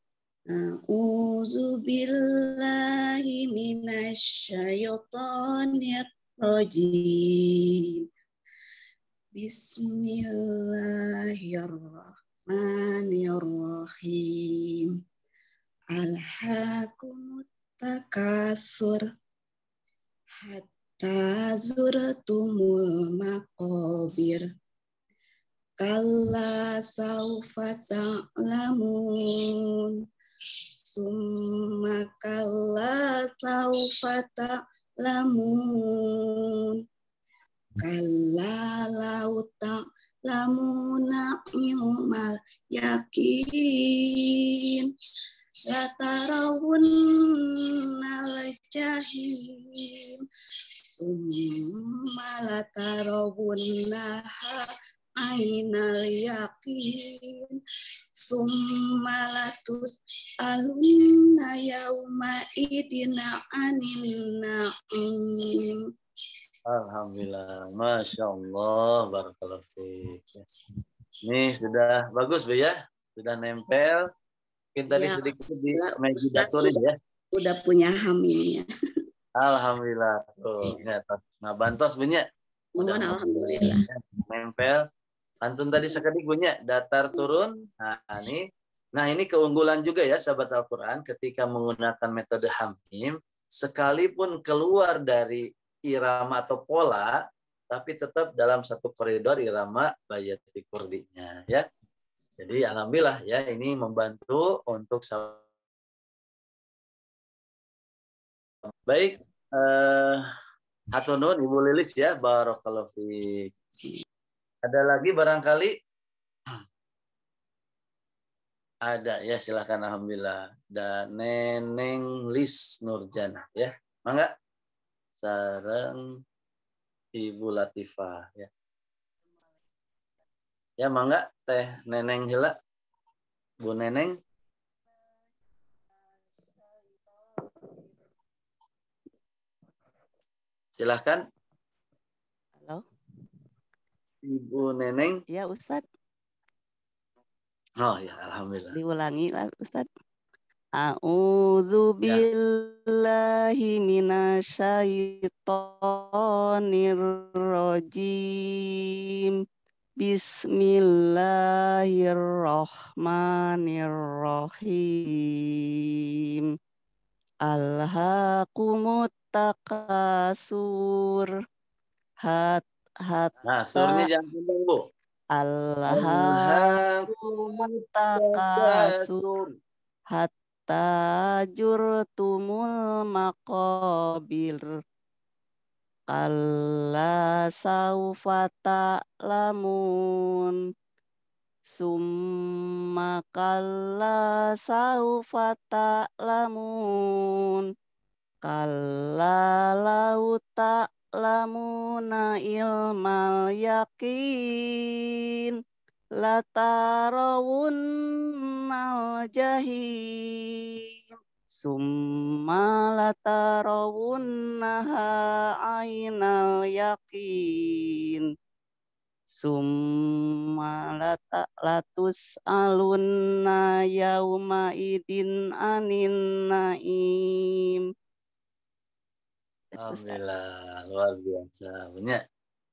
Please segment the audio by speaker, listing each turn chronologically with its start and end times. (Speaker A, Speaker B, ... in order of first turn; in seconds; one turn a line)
Speaker A: 0.5-7.9
Speaker A: 9.4-14.9
Speaker A: 15.9-19.0
Speaker A: 20.4-24.4
Speaker A: 25.8-29.9
Speaker A: 30.9-36.8
Speaker A: 37.8-44.9
Speaker A: 45.7-50.2
Speaker A: 51.0-54.7
Speaker A: 55.2-57.6
Speaker A: 58.2-59.9
Speaker A: 60.4-65.8
Speaker B: 66.7-70.5
Speaker B: 71.3-74.1
Speaker B: 74.8-77.0
Speaker A: 74.9-76.8
Speaker A: 77.4-78.7
Speaker B: 79.4-82.3
Speaker A: 82.8-83.8
Speaker B: 82.8-84.8
Speaker B: 85.4-97.2
Speaker B: 97.7-101.7
Speaker B: 102.4-105.4
Speaker B: 108.9-110.3
Speaker B: 110.9-113.5
Speaker B: 114.7-115.7
Speaker B: 118.9-124.3
Speaker B: 125.2-126.0
Speaker B: 127.2-128.5
Speaker B: 130.8-132.5
Speaker B: 133.6-134.2
Speaker B: 140.8-141.2
Speaker C: 142.6-142.8
Speaker B: 144.2-145.2
Speaker C: 145.3-145.8
Speaker B: 147.8-148.7
Speaker C: 148.7-149.9
Speaker C: 150.8-158.6
Speaker C: 160.0-165.2
Speaker C: 167.5-170.6
Speaker C: 172.3-174.1
Speaker B: 173.4-174.8
Speaker C: 175.4-176.7
Speaker B: 176.0-177.0
Speaker C: 177.5-179.3
Speaker B: 178.2-178.8
Speaker C: 180.2-180.9
Speaker C: 181.5-184.7
Speaker C: 186.1-189.8
Speaker C: 191.8-196.7
Speaker C: 198.5-204.8
Speaker C: 206.2-207.8
Speaker C: 208.7-209.8
Speaker C: 211.6-211.9
Speaker C: 212.5-217.3
Speaker C: 219.4-227.1
Speaker B: 229.8-232.2
Speaker C: 229.9-230.2